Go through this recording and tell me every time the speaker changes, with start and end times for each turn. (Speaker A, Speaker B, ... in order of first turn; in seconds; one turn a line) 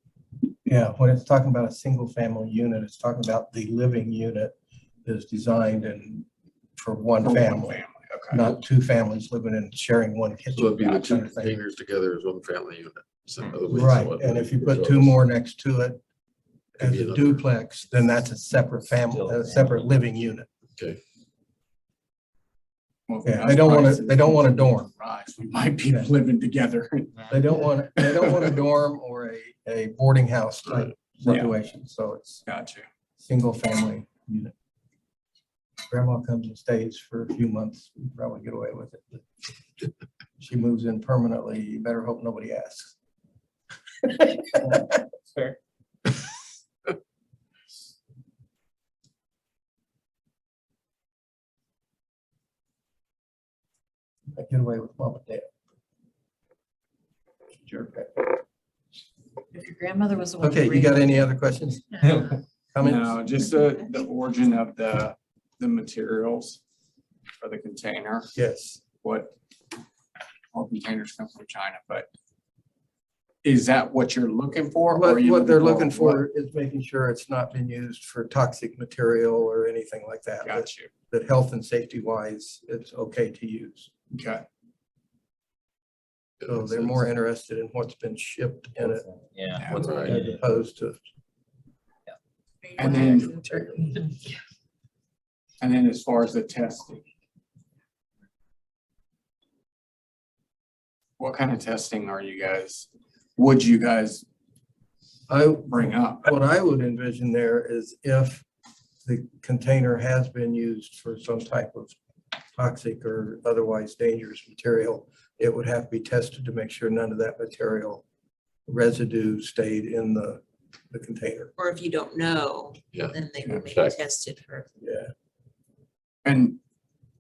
Speaker A: 0.7-7.8
Speaker B: 7.2-8.4
Speaker A: 8.3-11.6
Speaker C: 10.5-15.2
Speaker A: 13.7-16.0
Speaker A: 16.8-20.5
Speaker C: 16.8-17.5
Speaker D: 19.1-19.9
Speaker B: 23.1-28.5
Speaker A: 23.2-24.9
Speaker A: 27.3-32.4
Speaker C: 30.7-31.3
Speaker B: 31.3-31.5
Speaker B: 32.5-32.9
Speaker A: 33.2-34.5
Speaker A: 35.9-39.3
Speaker A: 40.4-43.0
Speaker A: 54.3-55.5
Speaker A: 57.6-58.4
Speaker E: 59.5-61.3
Speaker A: 60.4-63.2
Speaker F: 61.9-62.4
Speaker B: 62.8-66.6
Speaker B: 67.4-68.3
Speaker A: 68.3-68.8
Speaker B: 69.0-69.3
Speaker B: 70.5-72.1
Speaker B: 73.4-76.2
Speaker A: 74.9-83.9
Speaker B: 80.5-80.9
Speaker B: 84.1-84.5
Speaker C: 86.4-87.0
Speaker A: 86.5-89.1
Speaker D: 88.8-90.4
Speaker B: 89.6-89.9
Speaker C: 89.7-90.2
Speaker A: 89.7-91.0
Speaker F: 92.6-94.1
Speaker B: 92.8-93.4
Speaker E: 92.8-93.3
Speaker B: 95.6-97.0
Speaker B: 101.2-104.3
Speaker A: 105.3-108.5
Speaker B: 105.7-106.3
Speaker A: 109.0-112.0
Speaker A: 112.6-118.0
Speaker A: 118.7-121.5
Speaker F: 121.6-124.7
Speaker C: 122.9-124.0
Speaker A: 124.8-125.1
Speaker B: 126.2-126.6